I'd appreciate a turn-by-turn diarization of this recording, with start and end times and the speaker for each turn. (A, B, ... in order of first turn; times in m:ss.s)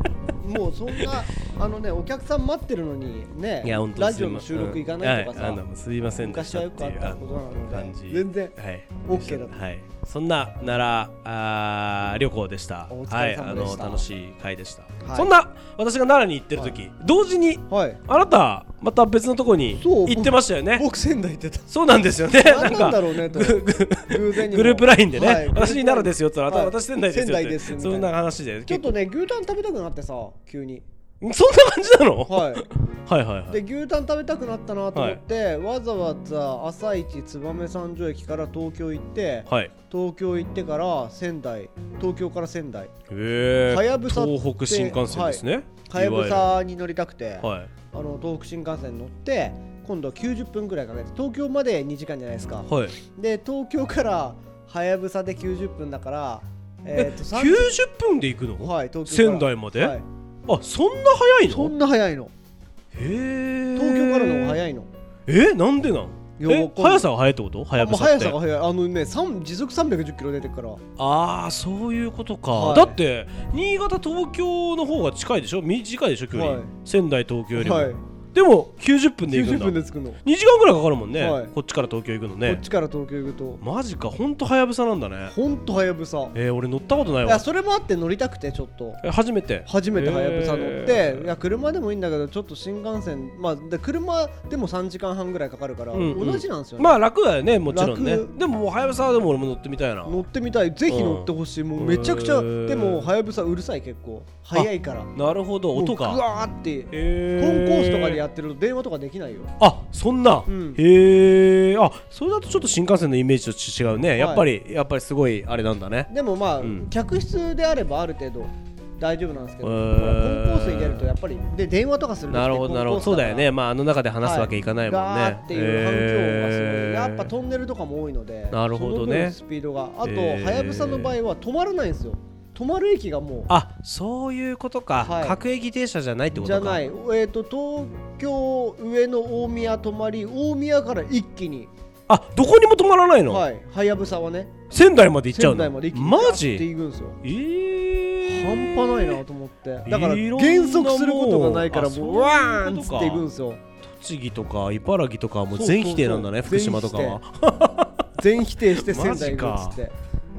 0:00.4-0:05.6 A
0:03.6-0:20.8 B
0:06.2-0:09.6 A
0:12.9-0:14.1 A
0:15.0-0:15.4 A
0:17.7-0:18.0 A
0:19.7-0:21.7 A
0:21.7-0:29.0 B
0:22.2-0:28.1 A
0:28.7-0:30.9 A
0:31.2-0:33.6 B
0:32.3-0:32.7 A
0:33.5-0:42.9 A
0:34.9-0:35.2 B
0:39.5-0:39.7 B
0:43.1-0:46.5 B
0:43.7-0:57.8 A
0:47.4-0:47.7 B
0:52.7-0:53.0 B
0:57.0-1:01.7 B
0:58.6-1:00.0 A
1:01.4-1:02.3 A
1:02.9-1:04.6 B
1:03.8-1:04.9 A
1:05.3-1:08.4 B
1:06.4-1:07.1 A
1:07.8-1:10.8 A
1:11.0-1:22.6 B
1:12.5-1:13.0 A
1:16.3-1:16.7 A
1:17.6-1:18.0 A
1:19.3-1:20.2 A
1:21.2-1:21.5 A
1:22.4-1:23.6 A
1:23.6-1:25.4 B
1:25.3-1:26.4 A
1:26.3-1:27.4 B
1:27.2-1:29.0 A
1:29.0-1:31.3 B
1:29.7-1:37.0 A
1:35.9-1:40.3 B
1:37.7-1:38.3 A
1:40.0-1:45.1 A
1:40.9-1:43.1 B
1:44.5-1:46.2 B
1:45.8-1:49.5 A
1:46.9-1:48.2 B
1:49.6-1:56.1 B
1:50.5-1:50.8 A
1:54.2-1:54.5 A
1:56.1-2:03.5 A
1:56.6-1:56.9 B
1:59.6-2:01.1 B
2:02.3-2:07.3 B
2:04.2-2:13.5 A
2:08.5-2:09.4 B
2:10.0-2:11.2 B
2:13.5-2:16.8 B
2:15.0-2:15.4 A
2:16.3-2:21.7 A
2:22.1-2:23.4 B
2:23.3-2:24.6 A
2:24.7-2:26.7 B
2:25.3-2:27.2 A
2:27.2-2:29.2 B
2:28.2-2:33.6 A
2:29.9-2:33.2 B
2:33.8-2:38.0 B
2:35.5-2:37.2 A
2:38.2-2:39.9 A
2:38.8-2:39.8 B